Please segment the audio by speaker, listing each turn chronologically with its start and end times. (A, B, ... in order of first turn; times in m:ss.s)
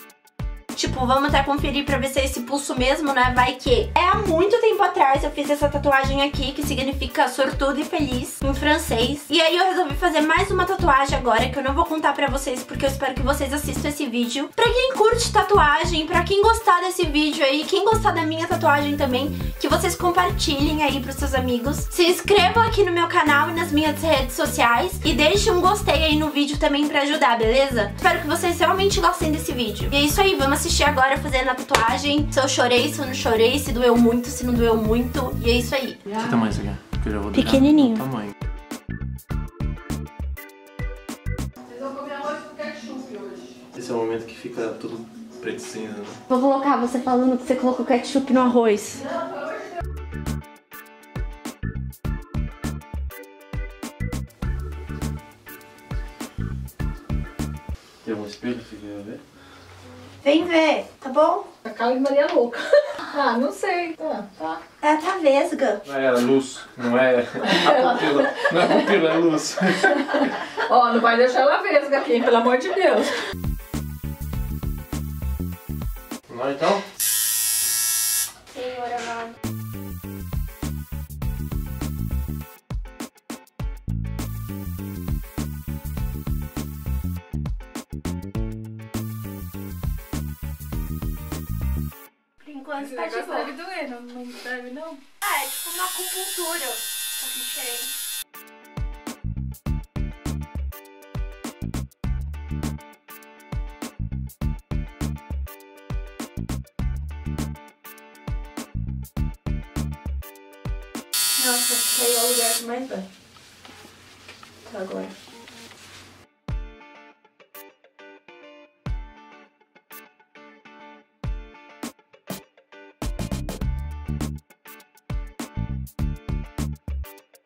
0:00.7-0:36.1 A
0:36.1-0:38.3 B
0:37.3-0:38.1 A
0:41.7-0:43.6 C
0:43.7-0:46.2 B
0:46.3-0:49.1 A
0:58.0-0:59.2 B
1:00.2-1:01.5 A
1:01.6-1:04.6 C
1:04.8-1:05.8 A
1:05.8-1:10.0 B
1:10.0-1:13.1 C
1:16.3-1:16.8 B
1:18.5-1:19.3 A
1:32.4-1:33.5 A
1:32.8-1:35.0 C
1:35.2-1:37.9 A
1:51.4-1:53.1 A
1:54.6-1:55.1 A